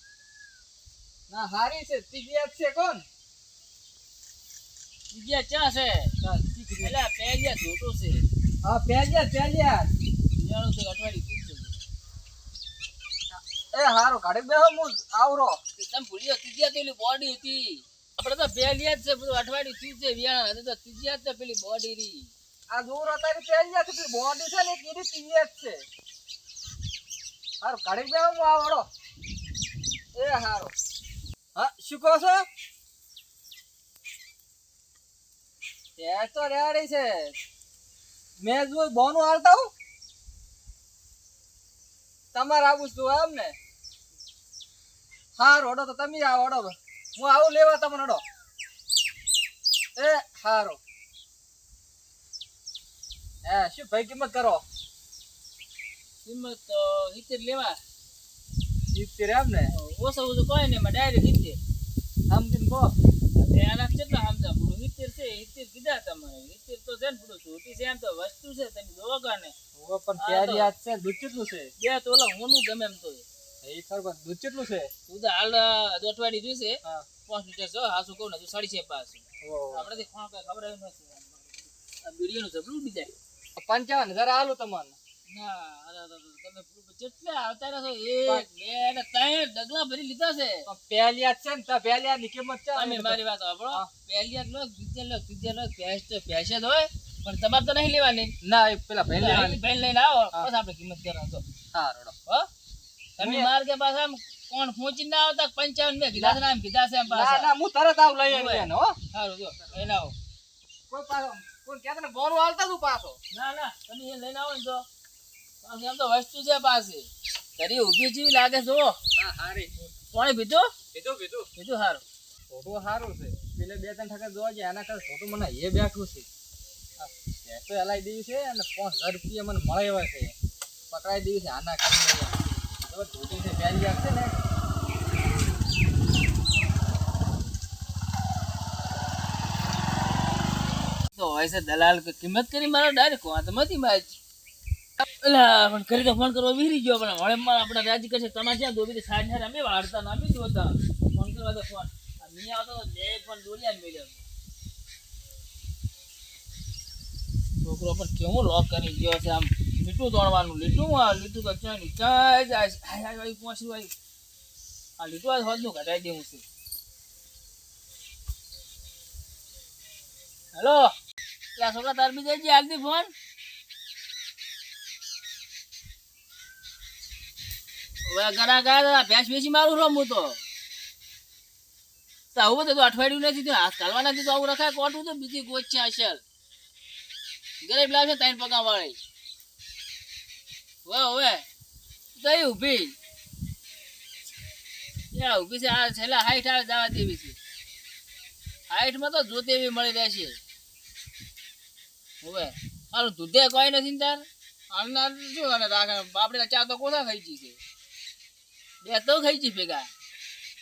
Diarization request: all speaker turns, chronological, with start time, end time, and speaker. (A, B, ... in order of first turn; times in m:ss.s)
0:01.3-0:03.0 A
0:05.1-0:06.1 B
0:06.2-0:06.9 A
0:06.8-0:08.2 B
0:08.6-0:09.9 A
0:10.3-0:11.7 B
0:13.3-0:15.6 A
0:15.8-0:22.3 B
0:22.7-0:25.8 A
0:27.6-0:28.9 A
0:30.1-0:30.7 A
0:31.6-0:32.5 A
0:36.0-0:37.3 A
0:38.4-0:39.7 A
0:42.3-0:43.6 A
0:45.4-0:48.2 A
0:50.0-0:50.8 A
0:53.4-0:54.6 A
0:56.2-0:57.8 B
0:58.9-0:59.7 A
0:59.7-1:01.6 B
1:02.3-1:02.9 A
1:03.3-1:09.5 B
1:09.7-1:11.7 A
1:10.2-1:10.7 B
1:11.8-1:13.2 B
1:13.6-1:14.9 A
1:15.1-1:23.1 B
1:19.4-1:19.8 A
1:23.6-1:25.0 A
1:25.3-1:30.6 B
1:30.6-1:33.2 A
1:32.7-1:38.3 B
1:38.4-1:39.6 A
1:39.1-1:41.4 B
1:41.7-1:42.1 A
1:43.2-1:47.5 B
1:43.2-1:43.5 A
1:46.1-1:46.4 A
1:47.1-1:49.0 A
1:48.3-1:50.1 B
1:50.9-1:53.2 A
1:53.3-1:54.8 B
1:55.6-1:59.0 B
1:59.1-1:59.9 A
2:00.1-2:00.7 B
2:00.9-2:01.5 A
2:01.6-2:02.0 B
2:02.5-2:06.2 A
2:07.0-2:10.3 A
2:10.9-2:14.4 A
2:21.1-2:24.2 B
2:25.2-2:34.2 B
2:37.6-2:43.9 B
2:45.0-2:46.4 B
2:50.5-2:50.9 B
2:51.6-2:53.1 B
2:58.0-3:00.4 B
3:02.3-3:06.2 B
3:07.6-3:09.0 B
3:10.8-3:11.4 B
3:12.2-3:13.0 B
3:15.1-3:17.4 B
3:18.7-3:20.4 B
3:22.2-3:27.6 B
3:28.8-3:29.9 B